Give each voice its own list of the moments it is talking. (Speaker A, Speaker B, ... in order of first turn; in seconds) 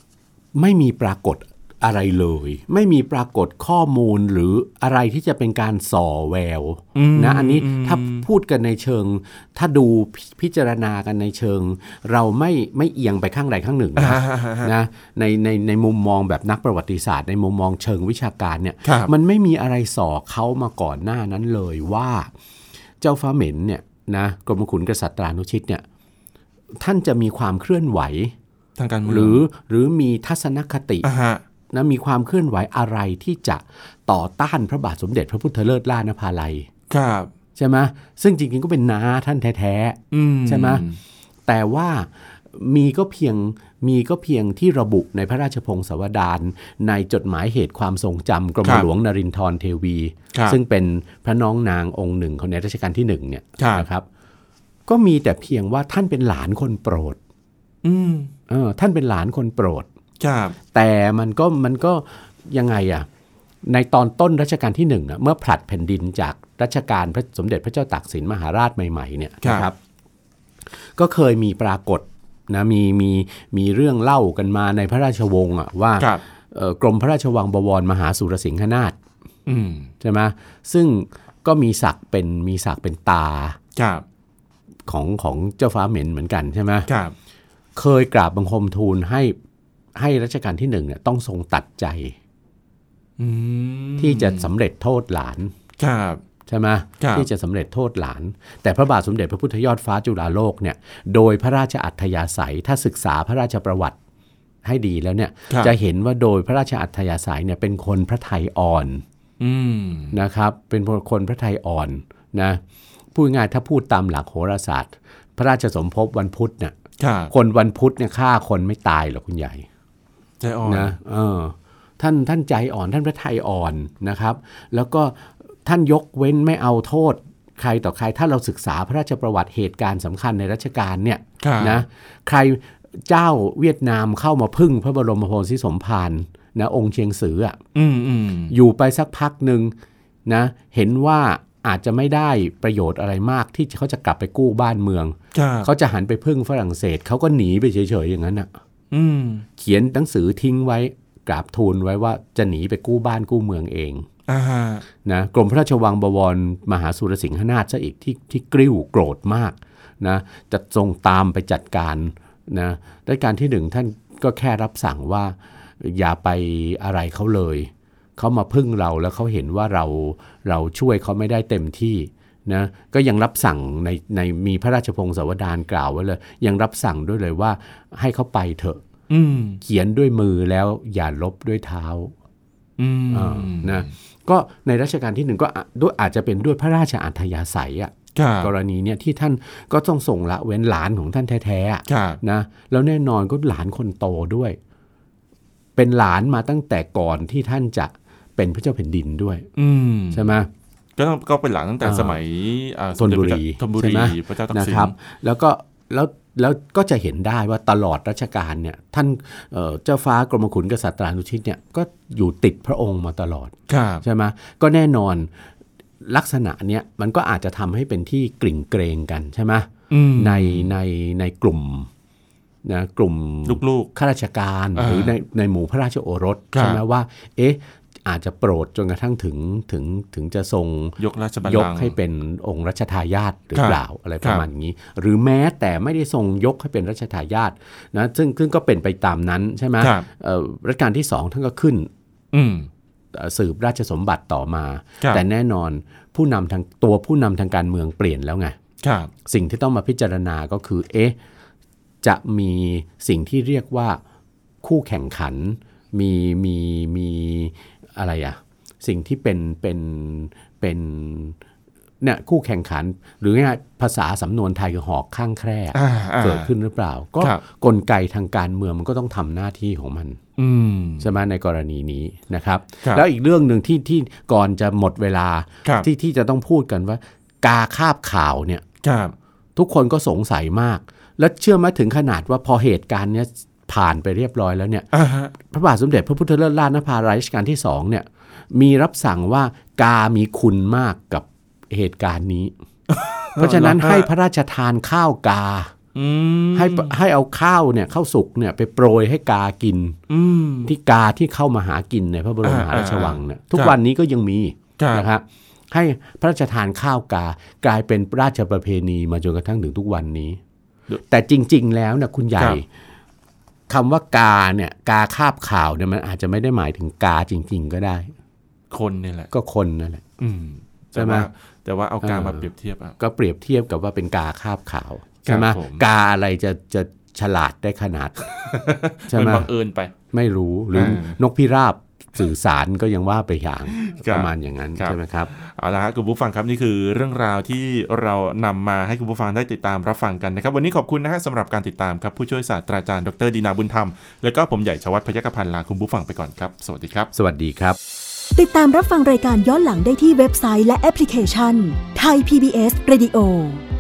Speaker A: 0.6-22.3, 23.0-25.8, 26.8-28.3, 29.1-31.1, 31.7-36.7, 37.6-40.8, 41.5-54.1, 54.9-57.2, 58.5-59.9, 60.7-63.1, 63.7-69.8, 71.0-79.0, 80.0-83.6, 84.9-86.9, 87.8-89.3, 90.0-92.2, 94.0-95.5, 96.5-104.0, 104.6-109.0, 110.1-112.6, 113.2-116.8, 117.3-119.7, 120.7-137.6, 138.5-139.7, 140.3-148.5, 149.6-154.1, 155.1-178.8, 179.6-182.1, 183.1-194.6, 195.8-199.5, 200.1-200.5, 201.8-202.2, 203.0-215.3, 216.0-221.9, 222.7-241.9, 243.1-248.6, 249.2-251.2, 252.0-254.0, 254.6-261.4, 262.0-270.2, 271.0-278.6, 279.6-292.5, 293.4-295.7, 296.5-300.0, 300.6-310.4, 311.1-312.7, 313.7-318.1, 319.3-320.1, 320.9-321.3, 322.0-322.5, 323.0-328.4, 329.1-329.5, 330.1-335.3, 347.1-347.8
Speaker B: 7.0-8.3, 14.0-14.7, 18.8-19.1, 28.8-29.4, 31.0-31.4, 36.9-37.3, 40.1-41.0, 53.6-53.9, 57.8-58.3, 60.2-60.6, 69.4-69.7, 79.5-79.9, 83.8-84.0, 86.9-87.2, 93.2-94.5, 95.8-96.2, 97.0-97.3, 109.4-110.2, 117.0-117.3, 120.4-121.0, 131.4-131.8, 137.7-138.5, 145.3-145.7, 148.9-149.5, 154.3-154.8, 179.1-179.6, 182.8-183.9, 188.2-188.5, 191.9-192.2, 199.6-200.3, 201.0-204.9, 213.7-214.0, 219.9-220.7, 223.5-223.9, 224.8-225.1, 226.5-226.8, 231.0-232.0, 233.5-234.5, 239.8-240.1, 242.3-242.7, 248.8-249.1, 265.7-266.5, 270.4-271.1, 278.8-279.1, 284.9-285.3, 292.9-294.1, 295.9-297.0, 300.1-300.7, 302.4-303.8, 304.8-305.1, 318.7-319.3, 320.2-323.0, 325.2-325.8, 328.5-329.9, 330.7-331.2, 333.7-347.1
Speaker C: 348.4-353.6